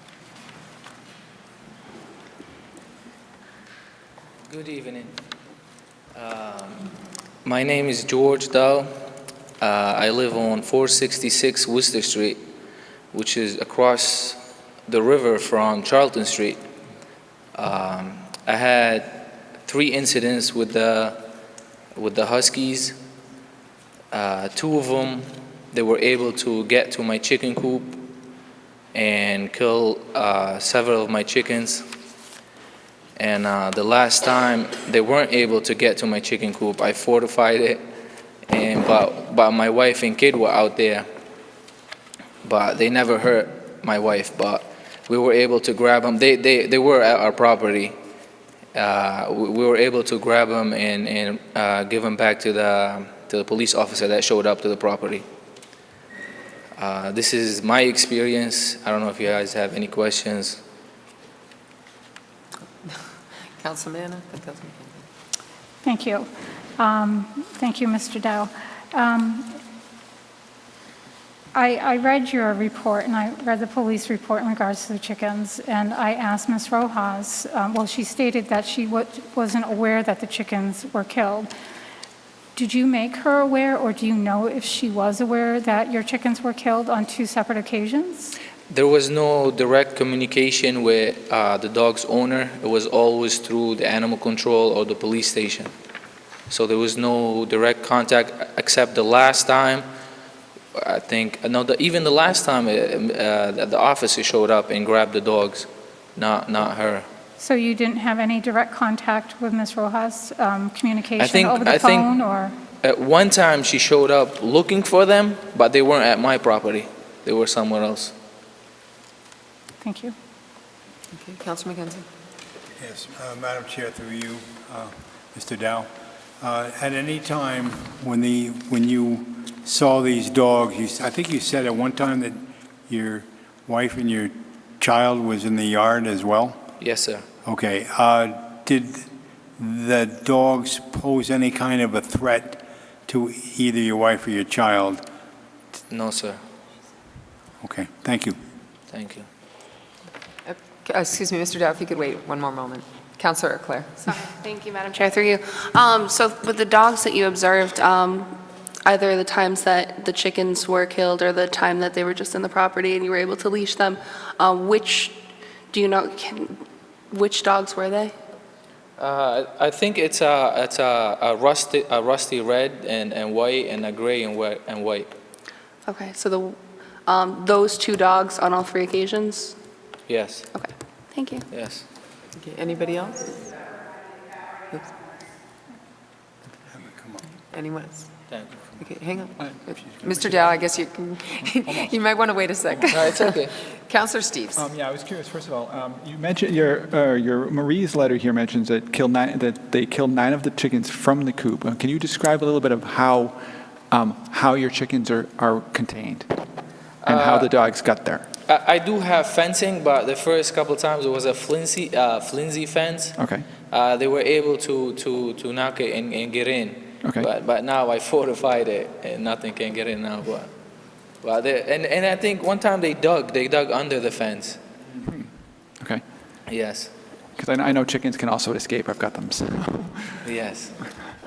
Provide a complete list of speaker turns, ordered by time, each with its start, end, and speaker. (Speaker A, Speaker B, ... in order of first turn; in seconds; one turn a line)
Speaker A: 4.5-5.2
Speaker A: 6.1-6.9
Speaker A: 7.4-8.9
Speaker A: 9.6-12.4
Speaker A: 13.1-16.6
Speaker A: 17.5-21.2
Speaker A: 21.9-23.0
Speaker A: 24.1-28.0
Speaker A: 28.9-31.8
Speaker A: 33.1-37.8
Speaker A: 38.5-41.0
Speaker A: 42.4-48.0
Speaker A: 48.7-55.2
Speaker A: 56.8-60.6
Speaker B: 63.6-65.0
Speaker C: 65.8-69.5
Speaker C: 71.5-81.5
Speaker C: 82.5-88.3
Speaker A: 88.7-95.7
Speaker A: 96.5-99.8
Speaker A: 100.8-107.0
Speaker C: 107.4-112.5
Speaker A: 111.2-112.2
Speaker A: 112.8-118.1
Speaker C: 119.8-120.1
Speaker B: 121.1-122.0
Speaker D: 122.8-136.6
Speaker A: 136.8-137.2
Speaker D: 137.4-139.1
Speaker D: 139.6-145.0
Speaker A: 145.9-146.4
Speaker D: 147.6-148.4
Speaker A: 148.9-149.3
Speaker B: 150.5-154.1
Speaker E: 154.1-158.3
Speaker E: 158.8-165.1
Speaker E: 165.7-166.6
Speaker E: 167.1-168.1
Speaker A: 169.0-175.1
Speaker E: 175.8-179.6
Speaker A: 180.1-180.5
Speaker E: 180.5-181.4
Speaker A: 181.5-181.8
Speaker B: 182.4-183.5
Speaker D: 186.7-187.2
Speaker B: 187.5-188.1
Speaker A: 188.3-188.6
Speaker B: 188.8-189.4
Speaker F: 189.5-190.4
Speaker B: 190.1-193.3
Speaker F: 191.4-191.9
Speaker A: 192.9-193.5
Speaker B: 193.9-194.6
Speaker F: 194.6-203.4
Speaker F: 203.9-206.3
Speaker A: 207.0-207.5
Speaker F: 207.0-208.3
Speaker A: 208.5-213.1
Speaker F: 213.2-213.5
Speaker A: 213.7-220.5
Speaker A: 221.2-224.6
Speaker A: 226.5-226.9
Speaker F: 227.4-230.2
Speaker A: 230.2-230.7